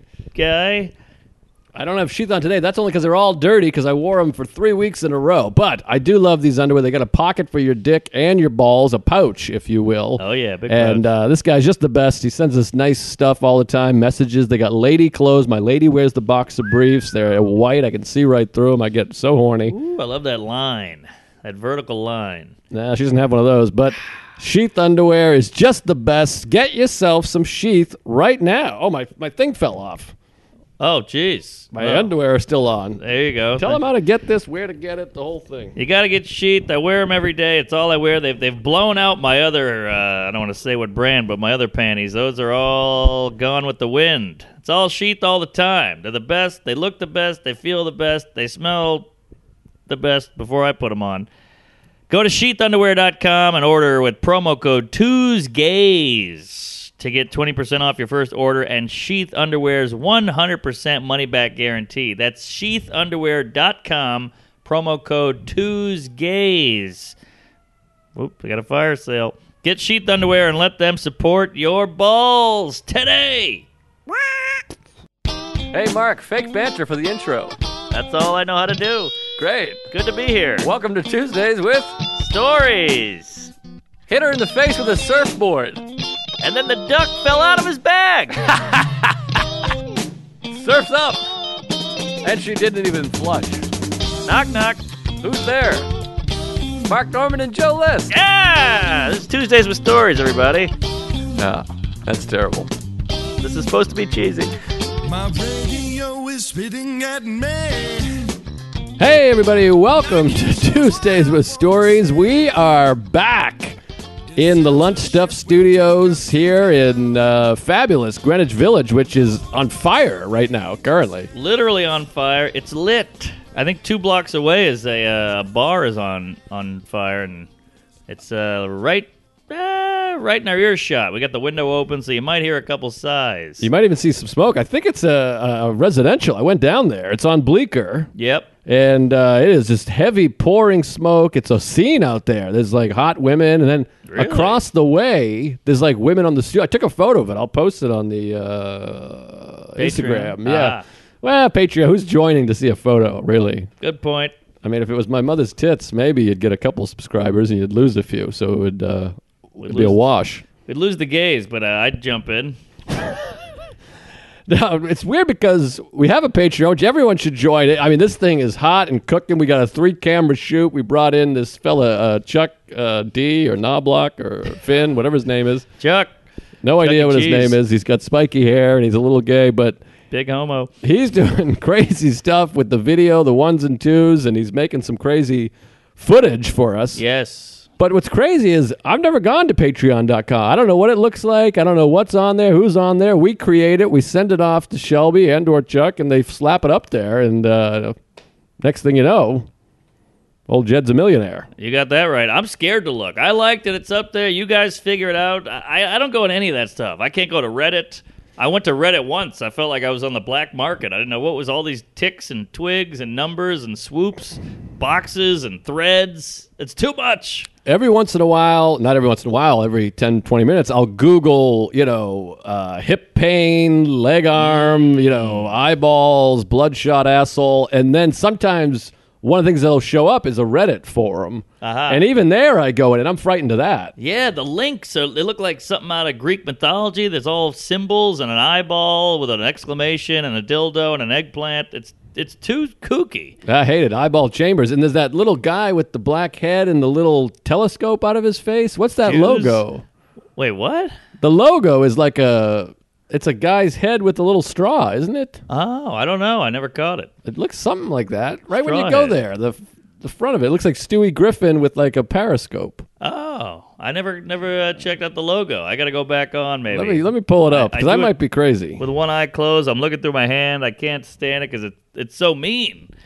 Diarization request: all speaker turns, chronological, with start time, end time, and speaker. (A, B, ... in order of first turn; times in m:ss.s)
0:00.3-0:00.9 A
0:01.8-0:19.8 B
0:10.2-0:11.1 A
0:19.7-0:22.5 A
0:22.7-0:30.1 B
0:30.8-0:32.1 A
0:31.7-0:33.0 B
0:33.0-0:33.8 A
0:33.6-0:35.8 B
0:35.8-0:49.1 A
0:49.9-0:51.3 A
0:52.1-1:07.2 A
1:08.2-1:13.7 A
1:15.7-1:17.6 B
1:17.9-1:19.2 A
1:19.4-1:19.9 B
1:19.9-1:20.7 A
1:20.6-1:22.0 B
1:22.2-1:23.5 A
1:24.1-1:25.8 B
1:26.4-1:28.4 A
1:28.4-1:29.1 B
1:30.5-1:31.2 B
1:32.2-1:33.6 B
1:34.2-1:34.8 A
1:35.2-1:35.9 B
1:36.9-1:38.2 B
1:38.1-1:40.7 A
1:41.4-1:42.7 B
1:43.4-1:44.5 A
1:45.0-1:48.3 C
1:49.0-1:53.8 B
1:50.2-1:52.0 C
1:54.3-1:56.3 C
1:54.4-2:01.3 B
2:01.3-2:07.5 A
2:08.1-2:13.7 A
2:13.6-2:18.1 B
2:18.2-2:18.5 A
2:18.7-2:33.7 B
2:24.1-2:24.6 A
2:29.8-2:30.8 A
2:33.8-2:34.4 A
2:34.6-2:40.4 B
2:39.6-2:40.0 A
2:40.7-2:42.6 A
2:44.5-2:55.7 B
2:55.8-2:56.1 A
2:56.6-2:59.8 B
2:56.8-2:57.6 A
3:00.1-3:00.7 A
3:00.8-3:07.0 B
3:07.0-3:07.6 A
3:07.8-3:18.0 B
3:18.6-3:19.5 B
3:20.5-3:21.5 B
3:21.6-3:37.5 A
3:37.7-3:53.9 B
3:44.4-3:45.5 A
3:51.6-3:52.0 A
3:54.0-4:03.4 A
4:03.5-4:09.8 B
4:09.0-4:09.6 A
4:10.4-4:11.0 A
4:11.2-4:15.4 B
4:15.5-4:17.1 A
4:17.2-4:22.8 B
4:18.6-4:19.2 A
4:23.0-4:28.1 A
4:26.7-4:28.8 B
4:28.8-4:32.9 A